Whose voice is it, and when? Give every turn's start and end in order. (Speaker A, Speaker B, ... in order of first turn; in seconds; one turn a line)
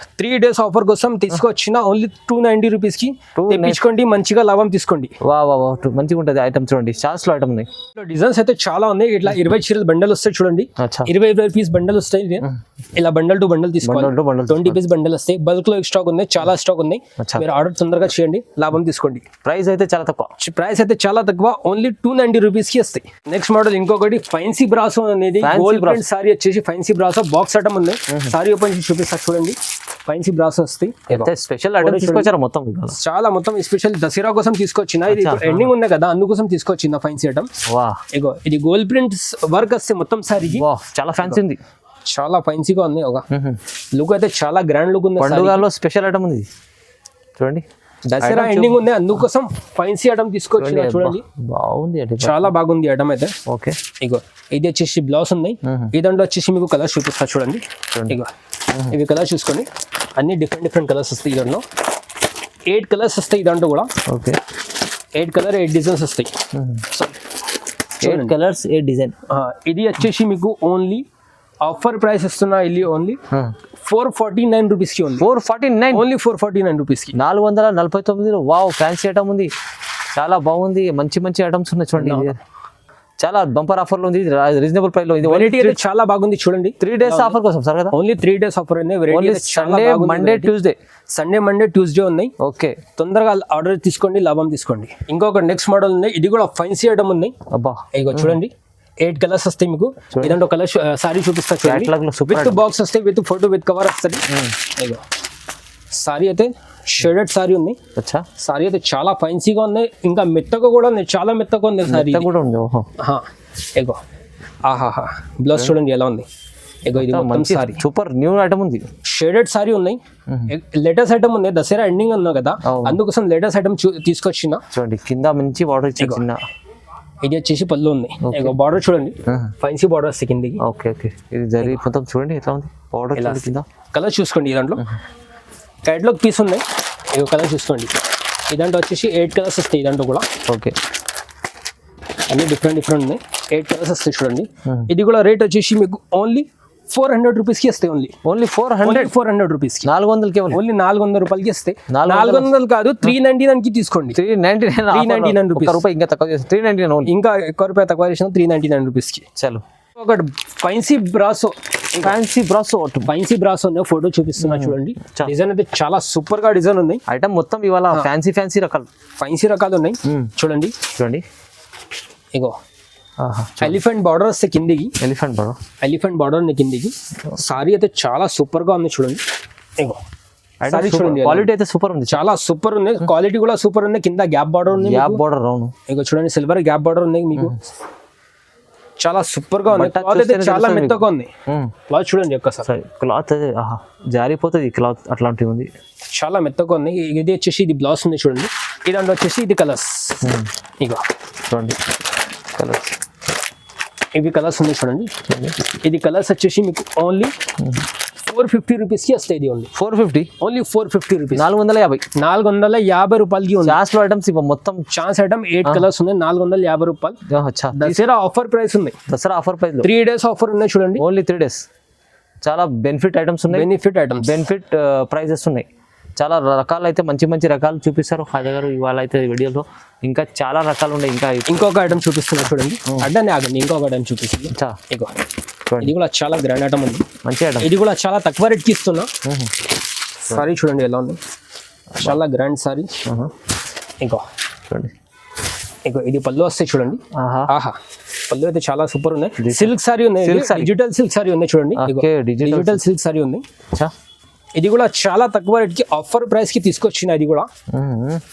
Speaker A: 0.2-5.1
Speaker B: 3.4-3.8
Speaker B: 5.2-7.7
Speaker A: 7.9-19.2
Speaker B: 10.8-11.1
Speaker B: 13.8-14.8
Speaker B: 17.2-17.5
Speaker B: 19.4-20.3
Speaker A: 20.4-32.3
Speaker B: 25.4-26.0
Speaker B: 31.1-32.9
Speaker A: 32.9-37.5
Speaker B: 35.1-35.7
Speaker B: 37.7-38.0
Speaker A: 38.1-40.6
Speaker B: 40.5-41.6
Speaker A: 42.0-43.2
Speaker B: 43.3-43.6
Speaker A: 43.9-45.6
Speaker B: 45.2-46.5
Speaker B: 47.4-47.6
Speaker A: 48.1-51.2
Speaker B: 48.1-48.8
Speaker B: 50.6-52.5
Speaker A: 52.2-53.3
Speaker B: 53.5-53.8
Speaker A: 54.0-58.3
Speaker B: 55.6-55.9
Speaker B: 57.9-58.2
Speaker A: 58.9-61.6
Speaker A: 62.6-63.9
Speaker B: 64.1-64.4
Speaker A: 65.2-66.3
Speaker B: 66.5-67.1
Speaker A: 68.0-68.3
Speaker B: 68.0-69.1
Speaker A: 69.3-71.0
Speaker A: 71.6-73.2
Speaker A: 73.8-75.3
Speaker B: 75.2-76.0
Speaker A: 75.9-77.1
Speaker B: 77.1-79.5
Speaker B: 80.2-82.4
Speaker A: 82.0-82.3
Speaker B: 83.2-85.8
Speaker A: 85.2-87.4
Speaker B: 86.8-88.0
Speaker A: 87.9-90.5
Speaker B: 89.1-90.8
Speaker A: 91.1-92.3
Speaker B: 92.4-92.8
Speaker A: 93.0-97.3
Speaker B: 97.5-98.4
Speaker A: 97.9-105.0
Speaker B: 100.1-100.4
Speaker B: 101.6-102.6
Speaker A: 105.9-107.8
Speaker B: 108.0-108.2
Speaker A: 108.4-112.3
Speaker B: 111.9-112.9
Speaker A: 113.0-114.0
Speaker A: 114.6-116.2
Speaker A: 116.8-117.8
Speaker B: 116.9-118.9
Speaker A: 119.0-124.6
Speaker B: 122.6-123.0
Speaker B: 124.7-126.4
Speaker A: 126.0-126.2
Speaker A: 127.2-130.6
Speaker B: 128.2-128.6
Speaker B: 129.2-129.5
Speaker B: 130.6-133.7
Speaker A: 133.2-134.8
Speaker A: 135.8-138.0
Speaker A: 138.5-140.3
Speaker B: 140.5-140.7
Speaker A: 142.3-148.1
Speaker B: 148.2-149.1
Speaker A: 148.8-149.9
Speaker B: 149.8-150.6
Speaker A: 150.5-154.2
Speaker B: 151.9-152.5
Speaker B: 154.1-157.1
Speaker A: 154.9-155.8
Speaker A: 157.1-159.2
Speaker B: 159.4-159.6
Speaker A: 159.9-162.2
Speaker B: 162.0-163.1
Speaker A: 163.1-167.0
Speaker B: 164.4-165.3
Speaker B: 167.1-168.9
Speaker A: 169.2-170.8
Speaker B: 170.0-170.3
Speaker B: 170.9-171.2
Speaker B: 173.2-173.8
Speaker A: 173.6-174.9
Speaker B: 175.0-175.6
Speaker A: 175.8-179.2
Speaker B: 180.6-182.2
Speaker A: 180.7-181.5
Speaker A: 182.1-185.2
Speaker B: 184.7-185.7
Speaker A: 185.9-187.6
Speaker A: 189.0-191.3
Speaker B: 189.7-191.7
Speaker A: 191.9-192.7
Speaker B: 192.7-195.7
Speaker A: 196.1-201.0
Speaker B: 200.2-200.5
Speaker B: 201.5-201.8
Speaker B: 202.5-202.9
Speaker A: 204.1-205.2
Speaker B: 205.3-205.7
Speaker A: 205.8-207.3
Speaker A: 208.2-209.7
Speaker B: 209.7-210.3
Speaker A: 210.4-211.5
Speaker B: 211.3-212.0
Speaker A: 212.2-213.8
Speaker B: 213.6-214.9
Speaker A: 214.9-217.2
Speaker B: 217.3-218.0
Speaker A: 217.7-218.9
Speaker B: 219.1-219.9
Speaker A: 219.8-221.0
Speaker B: 221.0-221.6
Speaker B: 222.4-223.7
Speaker A: 223.5-224.4
Speaker B: 224.2-225.7
Speaker B: 226.2-231.7
Speaker A: 231.5-235.1
Speaker B: 234.5-234.8
Speaker B: 235.7-235.9
Speaker A: 235.8-237.1
Speaker B: 237.2-237.7
Speaker A: 237.6-239.1
Speaker B: 239.2-239.6
Speaker A: 240.2-241.2
Speaker A: 242.0-243.0
Speaker B: 243.1-243.3
Speaker A: 245.8-247.8
Speaker B: 247.1-247.5
Speaker A: 248.3-253.4
Speaker B: 249.4-250.7
Speaker B: 251.8-252.8
Speaker A: 254.5-257.5
Speaker B: 257.7-258.2